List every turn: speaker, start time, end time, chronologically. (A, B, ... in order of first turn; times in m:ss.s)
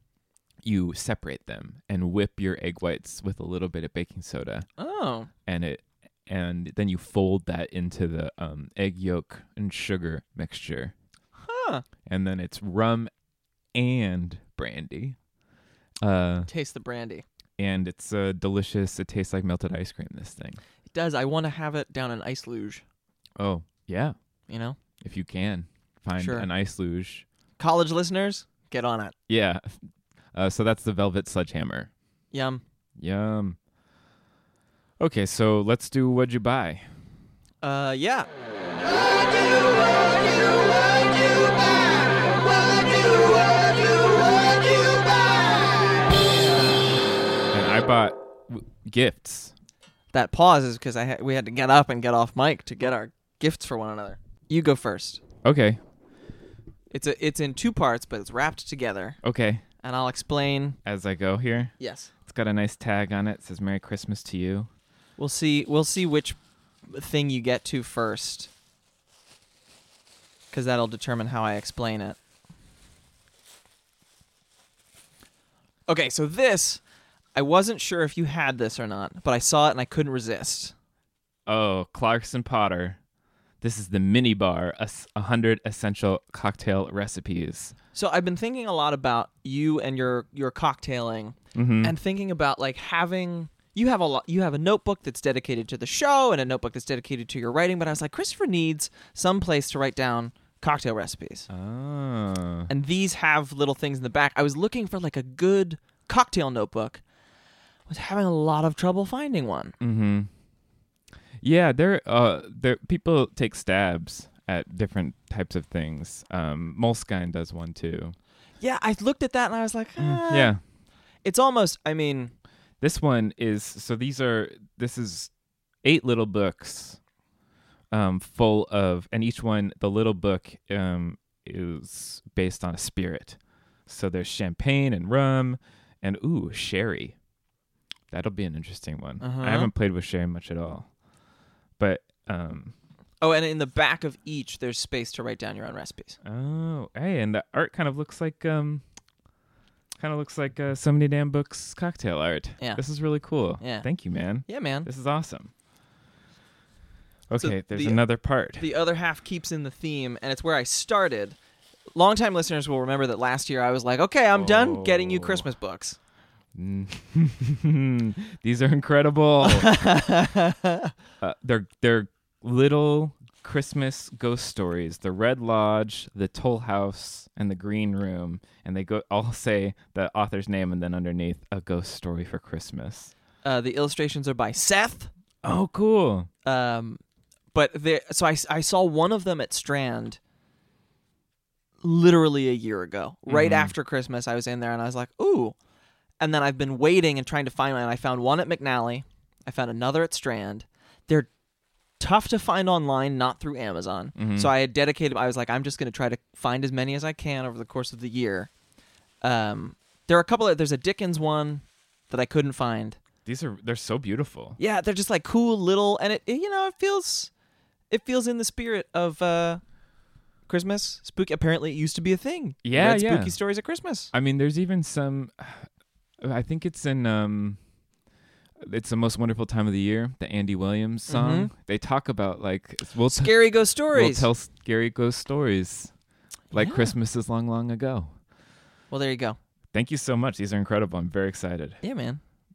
0:00.6-0:04.6 A
0:04.8-0:05.3 B
0:05.5-0:10.9 A
0:11.4-0:11.8 B
0:12.1-0:13.1 A
0:13.7-0:15.2 A
0:16.0-0:16.5 A
0:16.5-0:17.2 B
0:17.6-0:20.6 A
0:20.9-0:22.8 B
0:23.4-0:24.2 A
0:24.5-0:24.8 B
0:25.0-0:27.2 A
0:26.2-0:26.5 B
0:27.6-0:29.1 B
0:29.3-0:29.8 A
0:30.3-0:31.9 A
0:32.3-0:32.6 B
0:33.0-0:33.6 A
0:35.0-0:36.9 A
0:37.6-0:38.3 B
0:39.1-0:46.9 B
0:47.5-0:49.5 A
0:50.1-0:55.2 B
0:55.4-0:55.8 A
0:56.9-0:59.2 B
0:59.2-0:59.6 A
0:59.8-1:00.8 B
1:00.8-1:01.7 A
1:01.8-1:02.1 B
1:02.2-1:04.7 A
1:05.2-1:08.5 B
1:10.5-1:12.2 B
1:15.9-1:16.8 B
1:17.3-1:20.7 B
1:21.4-1:23.0 A
1:23.6-1:27.7 A
1:27.9-1:41.5 B
1:31.5-1:31.9 A
1:41.5-1:42.7 A
1:42.7-1:47.0 B
1:47.9-1:49.8 B
1:49.8-1:50.3 A
1:51.4-1:58.1 A
1:58.6-2:00.5 B
2:00.0-2:00.6 A
2:01.2-2:02.3 B
2:02.8-2:05.3 A
2:05.8-2:07.0 A
2:07.9-2:17.1 A
2:18.1-2:20.9 A
2:19.2-2:19.7 B
2:21.8-2:22.7 A
2:23.2-2:26.2 B
2:26.2-2:28.8 A
2:30.0-2:35.5 A
2:33.6-2:33.9 B
2:34.4-2:34.9 B
2:37.3-2:38.6 A
2:37.4-2:41.4 B
2:41.9-2:46.0 B
2:44.3-2:45.4 A
2:46.5-2:49.7 A
2:49.4-2:50.9 B
2:51.2-3:03.1 A
3:03.4-3:05.1 B
3:05.4-3:06.3 A
3:06.4-3:07.0 B
3:07.5-3:10.2 B
3:11.8-3:15.6 B
3:13.3-3:13.7 A
3:16.2-3:21.3 B
3:22.0-3:28.5 B
3:24.2-3:24.5 A
3:29.2-3:33.0 B
3:33.2-3:34.6 A
3:34.6-3:37.3 B
3:37.9-3:39.6 B
3:40.5-3:44.1 B
3:42.6-3:43.4 A
3:44.1-3:45.7 A
3:46.2-3:47.6 A
3:48.6-3:55.9 A
3:51.1-3:51.5 B
3:53.1-3:54.3 B
3:56.5-3:58.1 A
3:56.5-3:56.9 B
3:58.9-3:59.4 B
3:59.7-4:01.8 A
4:01.8-4:02.2 B